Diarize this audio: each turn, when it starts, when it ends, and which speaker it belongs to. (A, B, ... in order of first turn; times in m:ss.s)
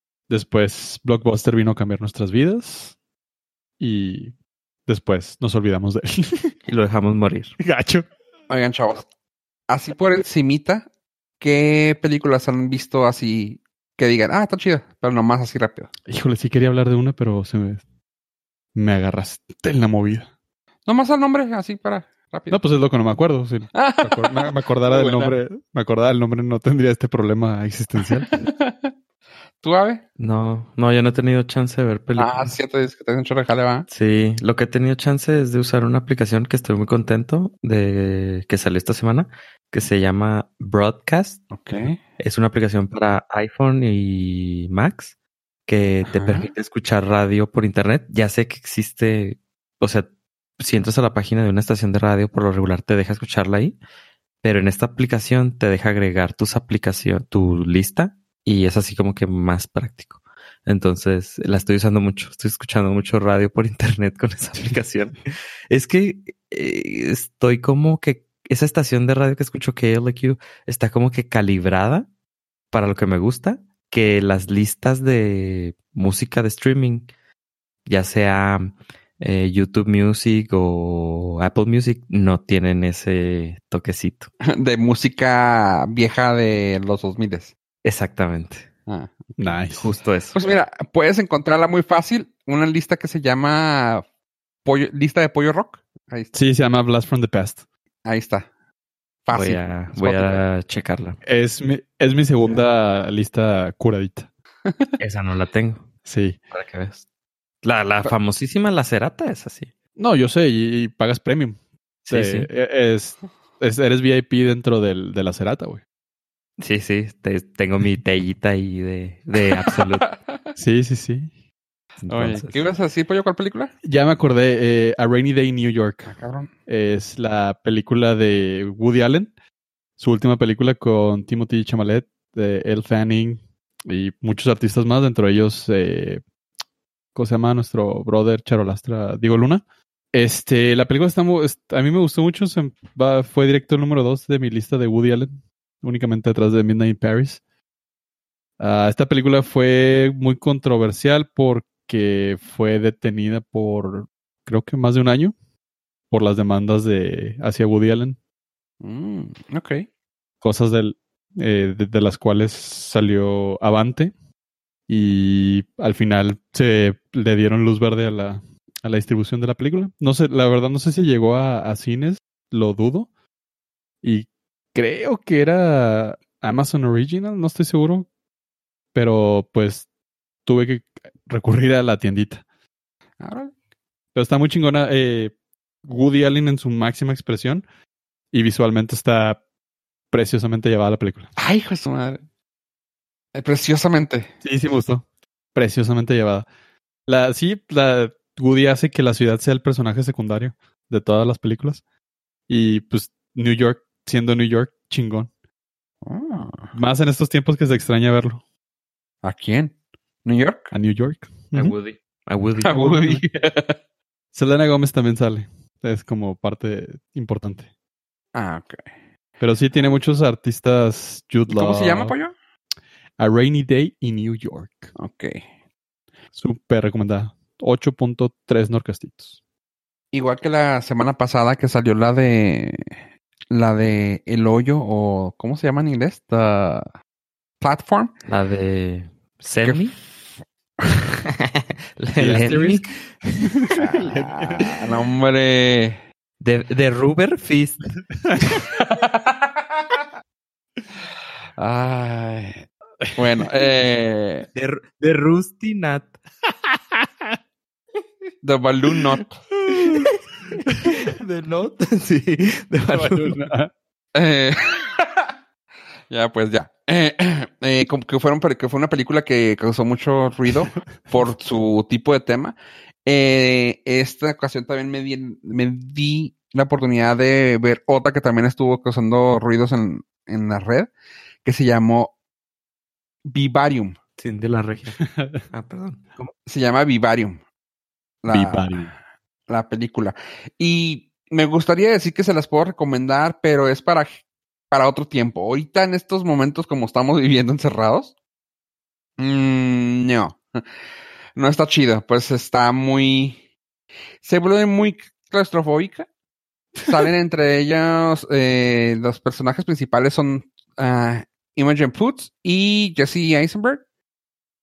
0:00.3-0:02.9 A
0:03.8-0:04.3 A
0:04.8-0:06.5 A
0:06.6-0:07.5 B
0:07.6-0:08.0 A
0:08.5-0:09.0 C
0:09.7-0:10.8 C
0:11.4-0:15.9 C
0:16.1-0:17.8 A
0:18.7-0:20.3 A
0:20.8-0:22.6 C
0:22.5-0:28.3 A
0:23.7-0:25.4 C
0:28.3-0:28.9 C
0:29.6-0:30.0 C
0:30.2-0:32.5 B
0:32.2-0:33.9 C
0:33.9-0:41.4 B
0:41.5-0:42.0 C
0:42.2-0:45.1 B
0:45.7-0:50.1 B
0:46.1-0:46.5 C
0:50.6-0:53.8 B
0:54.4-1:05.1 B
1:05.7-1:12.1 B
1:12.7-1:17.1 B
1:17.8-1:24.3 B
1:24.4-1:27.5 C
1:27.8-1:28.7 B
1:28.9-1:29.3 C
1:29.4-1:29.9 A
1:29.8-1:30.4 B
1:30.3-1:34.0 C
1:34.6-1:36.3 C
1:36.3-1:37.6 A
1:38.0-1:38.5 C
1:39.2-1:40.4 C
1:39.3-1:41.2 B
1:41.2-1:44.3 A
1:45.0-1:45.8 B
1:46.0-1:46.4 A
1:46.5-1:47.0 B
1:47.6-1:49.7 B
1:50.0-1:51.6 A
1:52.0-1:52.5 B
1:52.1-1:55.8 A
1:56.6-2:00.1 B
1:59.7-2:00.4 C
2:00.6-2:01.3 A
2:02.0-2:02.6 B
2:02.1-2:03.7 C
2:03.8-2:06.1 A
2:06.0-2:06.5 C
2:06.7-2:09.3 A
2:10.0-2:16.2 A
2:17.1-2:27.4 A
2:28.6-2:35.3 A
2:36.1-2:38.2 A
2:38.8-2:39.8 C
2:40.4-2:44.1 A
2:44.9-2:53.1 A
2:54.0-2:58.1 A
2:58.9-2:59.9 A
3:00.4-3:02.4 A
3:03.2-3:03.5 C
3:04.1-3:05.3 A
3:05.8-3:07.6 A
3:08.3-3:09.4 A
3:10.1-3:11.3 A
3:11.4-3:12.2 C
3:13.3-3:14.3 C
3:14.4-3:16.5 A
3:17.1-3:21.8 A
3:22.5-3:25.3 A
3:26.0-3:26.7 C
3:26.7-3:28.4 A
3:29.2-3:29.7 C
3:30.2-3:30.7 C
3:30.7-3:31.8 A
3:31.5-3:33.2 B
3:32.6-3:33.8 C
3:34.3-3:37.7 A
3:38.3-3:38.8 C
3:39.4-3:42.1 A
3:41.5-3:42.3 C
3:43.2-3:44.9 A
3:45.0-3:45.4 C
3:46.3-3:49.4 A
3:50.1-3:52.9 C
3:53.5-3:56.9 C
3:57.6-3:58.1 C
3:58.2-4:00.0 B
4:01.2-4:03.6 B
4:02.2-4:02.8 A
4:03.5-4:04.7 A
4:03.7-4:06.0 C
4:06.4-4:07.8 B
4:08.7-4:10.0 C
4:11.6-4:14.5 C
4:13.0-4:13.4 A
4:14.5-4:16.1 B
4:18.4-4:19.4 C
4:19.7-4:20.1 A
4:19.7-4:23.4 B
4:22.9-4:23.7 A
4:24.1-4:25.2 C
4:26.1-4:40.9 C
4:41.4-4:42.1 C
4:43.2-4:44.0 C
4:44.2-4:45.0 B
4:45.0-4:45.4 A
4:45.5-4:46.0 B
4:46.2-4:47.4 C
4:48.2-4:48.9 C
4:48.3-4:48.9 A
4:49.5-4:54.1 C
4:54.7-4:58.1 C
4:59.2-5:00.4 C
5:01.4-5:03.4 C
5:04.2-5:06.1 C
5:06.8-5:13.8 C